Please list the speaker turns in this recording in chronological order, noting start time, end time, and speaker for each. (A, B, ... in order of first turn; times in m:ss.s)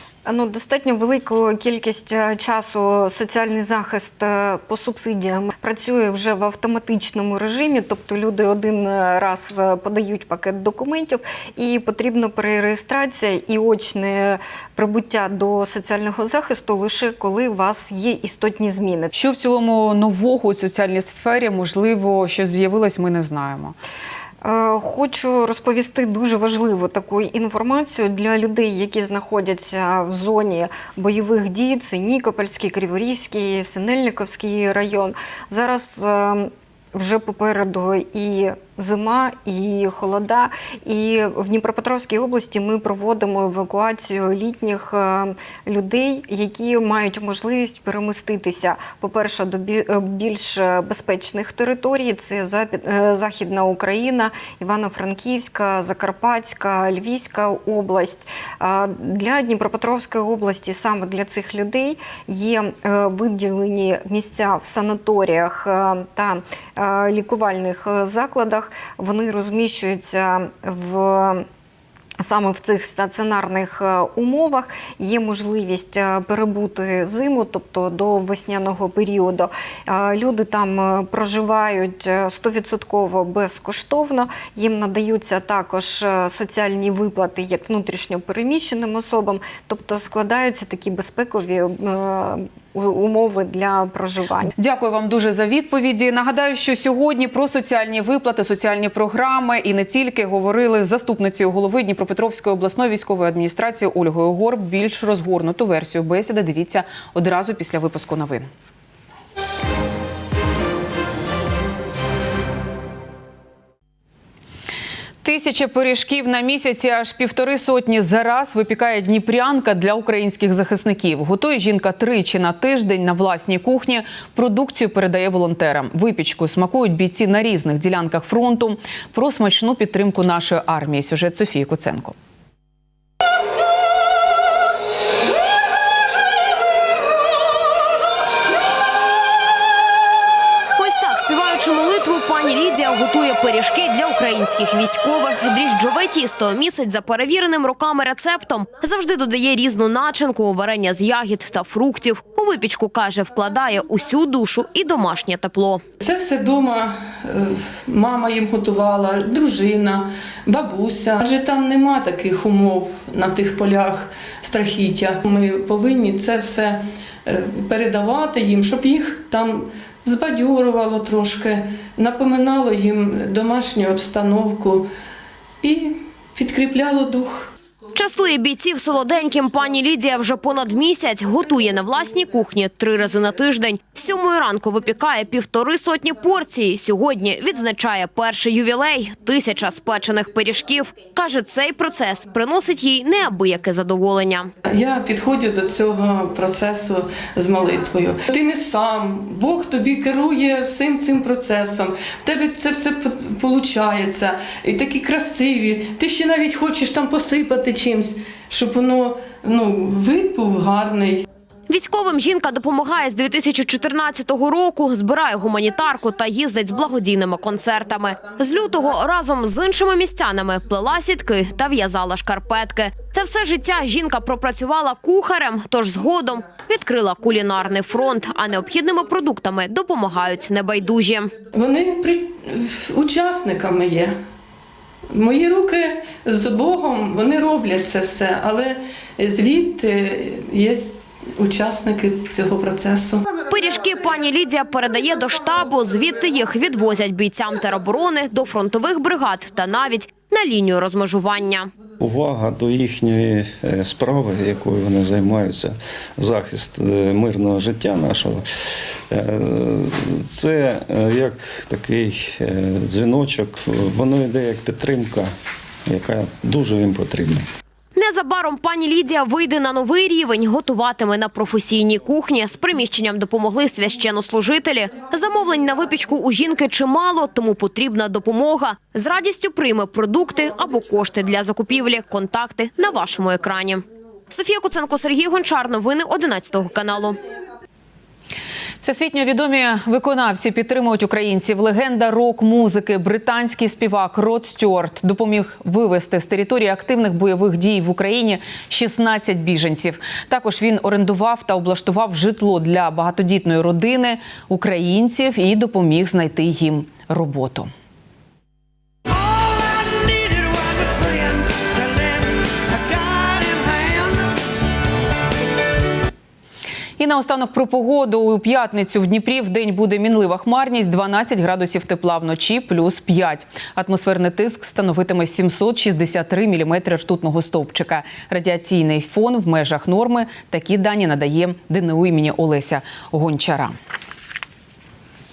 0:00.2-0:19.1 A
0:19.1-0:23.7 B
0:24.4-1:11.4 A
1:12.2-1:34.5 A
1:34.6-1:48.5 B
1:55.2-2:12.1 B
2:20.8-2:35.8 C
2:36.0-2:54.9 D
2:55.6-2:57.5 D
2:57.9-3:14.5 C
3:14.6-3:31.2 D
3:31.7-3:51.3 C
3:51.5-3:54.2 D
3:55.1-4:03.3 D
4:03.5-4:11.7 C
4:12.0-4:18.4 E
4:19.1-4:25.3 E
4:25.8-4:27.4 E
4:28.0-4:47.2 C
4:48.8-5:07.7 B
5:17.0-5:33.7 B